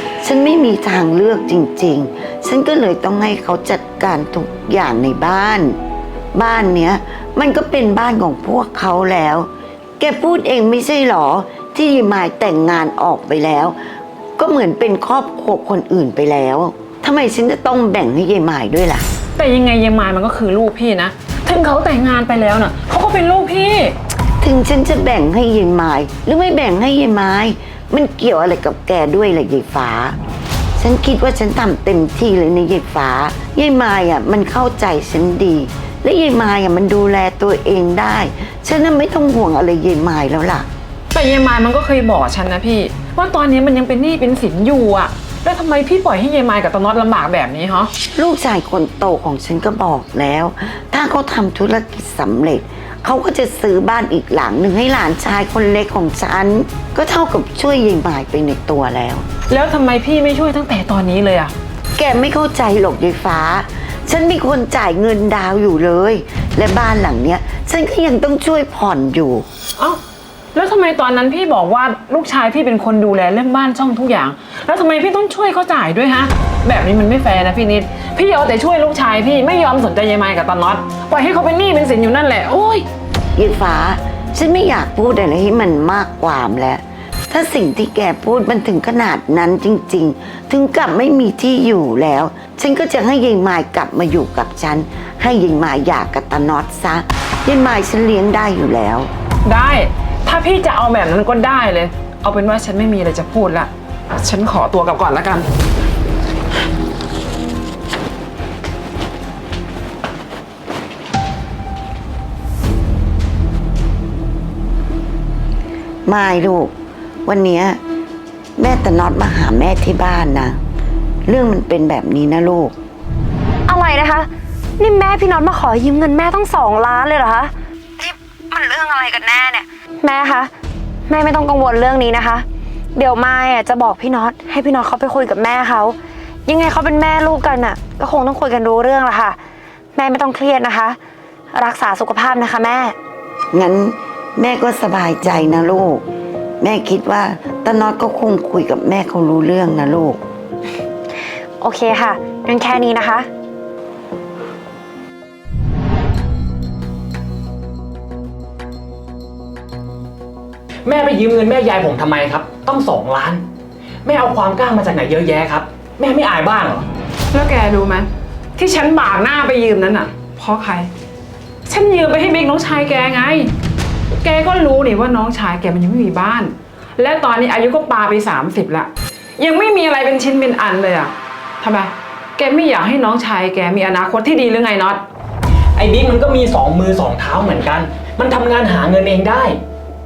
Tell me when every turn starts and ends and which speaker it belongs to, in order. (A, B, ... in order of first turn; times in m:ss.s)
0:00.2-0:05.8 A
0:06.3-0:13.8 A
0:14.4-0:19.1 A
0:19.4-0:23.9 B
0:24.4-0:30.2 A
0:30.8-0:40.7 A
0:41.1-0:47.9 B
0:48.2-0:59.2 A
0:59.5-1:01.5 B
1:02.0-1:09.4 A
1:10.5-1:22.8 B
1:23.4-1:39.1 A
1:39.4-1:45.5 B
1:56.0-1:56.7 A
1:57.2-1:57.8 A
1:58.6-2:00.6 A
2:01.2-2:02.7 A
2:03.7-2:10.5 C
2:11.1-2:19.4 C
2:19.9-2:21.0 C
2:21.5-2:23.0 C
2:23.5-2:26.0 A
2:26.6-2:30.2 A
2:31.6-2:33.3 C
2:40.8-2:43.4 D
2:44.0-2:46.9 D
2:47.3-2:50.9 B
2:51.6-2:53.5 B
2:54.2-3:05.0 B
3:05.8-3:09.6 D